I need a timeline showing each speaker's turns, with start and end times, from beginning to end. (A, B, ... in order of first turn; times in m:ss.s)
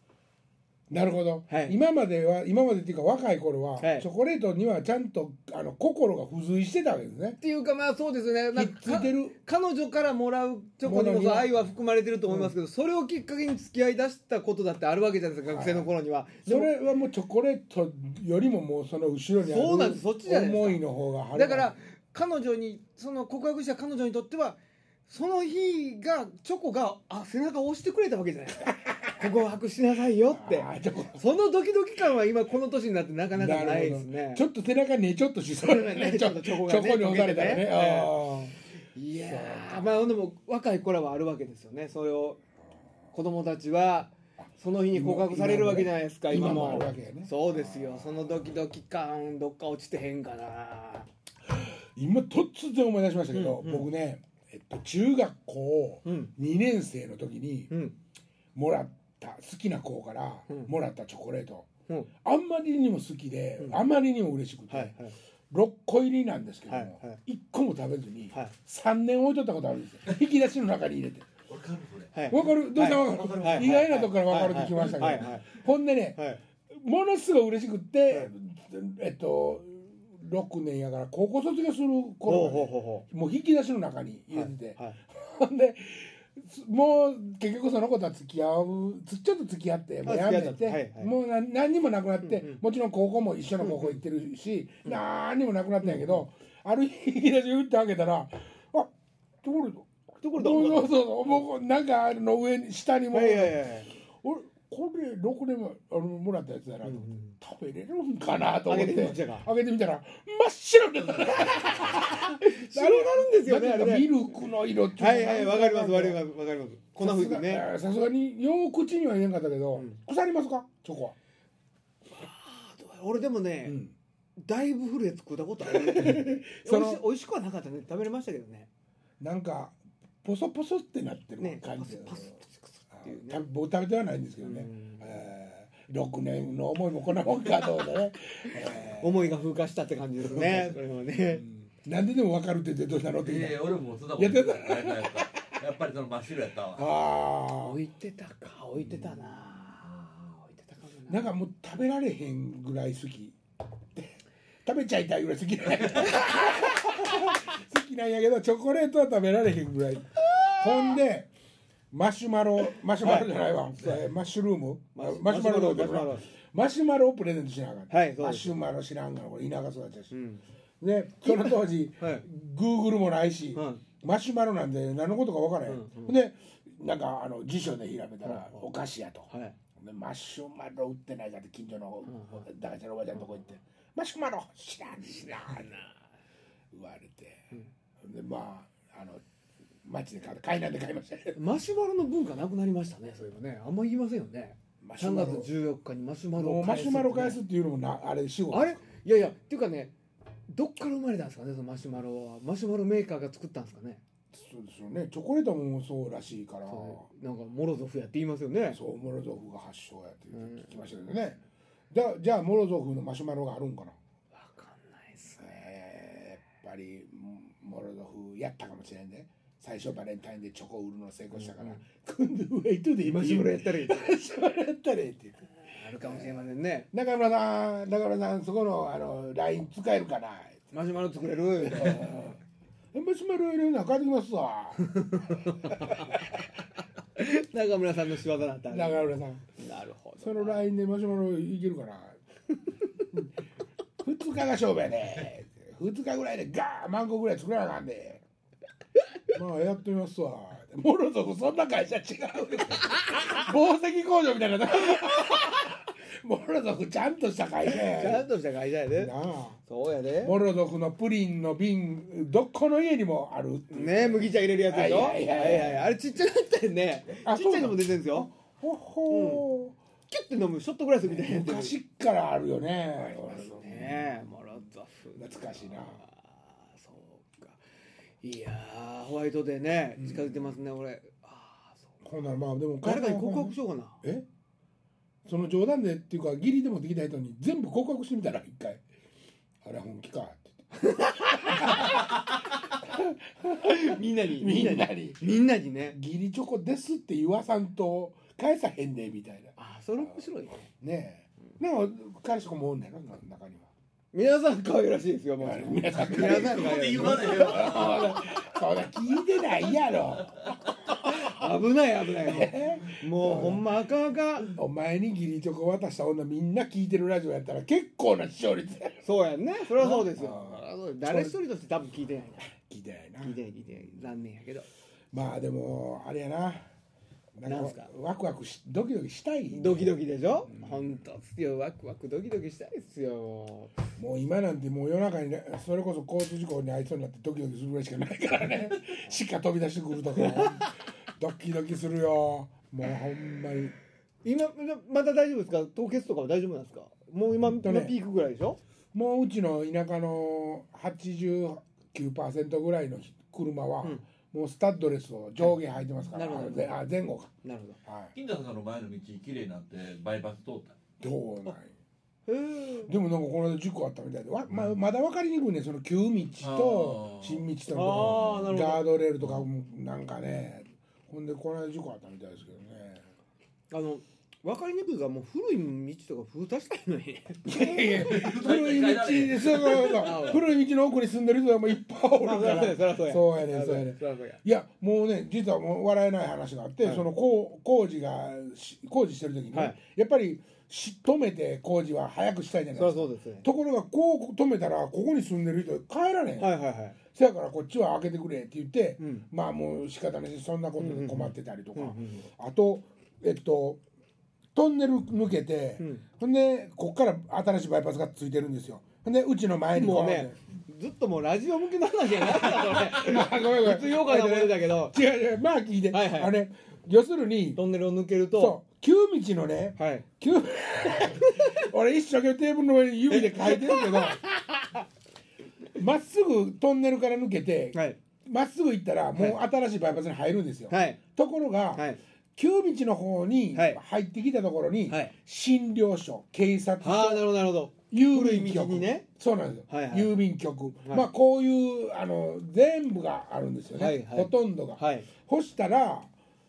0:00.9-0:07.4 A
0:01.5-0:01.8 B
0:03.8-0:04.1 B
0:07.4-0:16.7 B
0:08.5-0:09.4 A
0:10.8-0:11.5 A
0:12.3-0:12.5 A
0:15.4-0:15.9 A
0:16.4-0:21.8 A
0:19.4-0:20.8 B
0:21.3-0:34.4 B
0:28.6-0:29.4 A
0:30.3-0:31.2 A
0:33.3-0:38.6 A
0:35.6-0:38.2 B
0:38.9-0:42.4 B
0:39.2-0:40.1 A
0:43.1-0:51.1 B
0:44.9-0:48.5 A
0:51.5-0:57.7 A
0:53.3-0:53.9 B
0:56.0-0:56.3 B
0:57.7-0:58.0 B
0:58.5-1:01.7 A
1:02.2-1:05.0 A
1:04.7-1:05.2 B
1:05.5-1:11.3 A
1:06.7-1:07.2 B
1:11.5-1:12.3 C
1:12.1-1:15.5 B
1:12.3-1:38.9 A
1:12.9-1:14.0 C
1:16.1-1:16.4 B
1:22.2-1:23.1 B
1:24.3-1:25.0 B
1:30.0-1:31.1 B
1:32.2-1:32.6 B
1:33.6-1:34.0 B
1:35.8-1:36.2 B
1:39.4-1:43.6 A
1:40.2-1:41.4 B
1:43.1-1:43.9 B
1:44.2-1:56.2 A
1:46.8-1:47.3 B
1:48.7-1:49.5 B
1:51.6-1:54.1 B
1:55.0-1:57.6 B
1:57.0-2:01.2 A
2:02.1-2:03.8 B
2:03.6-2:03.9 A
2:04.4-2:08.7 B
2:05.7-2:07.0 A
2:09.2-2:12.3 A
2:11.4-2:13.4 B
2:12.9-2:19.3 A
2:14.4-2:15.1 B
2:19.0-2:21.4 B
2:20.2-2:20.8 A
2:21.3-2:25.5 A
2:23.2-2:26.9 C
2:26.7-2:27.8 A
2:27.6-2:31.3 B
2:31.1-2:33.4 A
2:33.9-2:41.3 A
2:40.2-2:41.0 B
2:41.9-2:50.1 A
2:43.0-2:44.0 B
2:44.9-2:46.2 B
2:47.9-2:48.5 B
2:50.1-2:50.4 B
2:50.8-3:05.8 A
2:51.2-2:52.2 B
2:53.5-2:53.8 B
2:55.6-2:56.2 B
2:58.2-2:58.6 B
2:59.3-2:59.6 B
3:02.1-3:02.5 B
3:06.7-3:07.5 A
3:08.0-3:09.2 A
3:09.8-3:11.4 A
3:11.4-3:17.4 B
3:14.8-3:15.5 A
3:16.4-3:18.8 A
3:18.5-3:19.9 B
3:20.5-3:24.0 B
3:24.3-3:27.1 A
3:26.7-3:28.8 B
3:28.7-3:34.0 A
3:30.3-3:30.7 B
3:34.3-3:35.6 B
3:35.4-3:45.4 A
3:41.3-3:41.8 B
3:43.0-3:44.1 B
3:45.6-3:46.9 B
3:46.0-3:50.7 A
3:50.7-3:52.2 B
3:51.6-3:52.4 A
3:52.9-3:56.3 A
3:54.8-3:56.2 B
3:57.1-4:00.6 B
3:58.7-3:59.4 A
4:00.2-4:02.2 A
4:04.0-4:08.2 A
4:09.3-4:18.3 A
4:17.7-4:19.1 B
4:18.9-4:19.6 A
4:19.6-4:20.4 B
4:20.2-4:25.9 A
4:23.7-4:28.3 B
4:27.2-4:29.8 A
4:29.1-4:29.4 B
4:30.1-4:31.7 B
4:31.0-4:34.1 A
4:33.0-4:37.6 B
4:35.2-4:36.0 A
4:38.2-4:42.0 B
4:40.0-4:40.5 A
4:42.0-4:44.3 A
4:42.8-4:44.0 B
4:45.2-4:48.8 A
4:49.6-4:50.7 A
4:50.8-4:52.1 B
4:51.2-4:55.2 A
4:53.6-4:56.0 B
4:55.9-5:00.1 A
4:59.6-5:00.7 B
5:00.8-5:03.7 A
5:04.1-5:08.2 B
5:05.4-5:11.5 A
5:06.0-5:08.3 C
5:11.0-5:14.5 B
5:12.2-5:13.7 A
5:14.5-5:19.0 A
5:19.0-5:22.5 B
5:19.8-5:21.4 A
5:22.4-5:23.4 A
5:23.2-5:24.7 B
5:25.1-5:26.7 A
5:27.4-5:29.9 A
5:27.4-5:27.9 B
5:29.5-5:33.8 B
5:30.4-5:30.9 A
5:34.0-5:43.8 A
5:40.2-5:40.6 B
5:44.2-5:48.6 B
5:47.4-5:47.9 A
5:48.9-5:57.3 A
5:56.1-5:56.8 B
5:57.4-5:57.8 B
5:57.8-5:58.1 A
5:58.1-6:00.8 C
6:01.0-6:01.7 A
6:02.3-6:02.9 B
6:02.8-6:13.0 A
6:06.4-6:07.5 C
6:07.7-6:08.9 B
6:13.7-6:18.1 B
6:17.4-6:43.8 A
6:17.9-6:20.2 C
6:19.7-6:20.4 B
6:22.2-6:24.4 B
6:29.5-6:29.8 B
6:32.7-6:33.5 B
6:36.4-6:37.0 B
6:39.0-6:39.2 B
6:40.8-6:42.3 B
6:44.5-6:50.4 A
6:45.8-6:46.0 B
6:49.7-6:55.0 B
6:52.3-6:57.6 A
6:55.9-6:56.3 B
6:57.6-6:58.6 B
6:58.3-7:04.2 A
6:59.8-7:00.0 B
7:01.2-7:01.6 B
7:03.1-7:04.2 B
7:05.7-7:17.3 A
7:10.7-7:11.0 B
7:11.7-7:12.0 B
7:13.5-7:13.8 B
7:14.9-7:15.1 B
7:16.8-7:19.0 B
7:17.9-7:26.1 A
7:19.7-7:20.1 B
7:23.8-7:25.1 B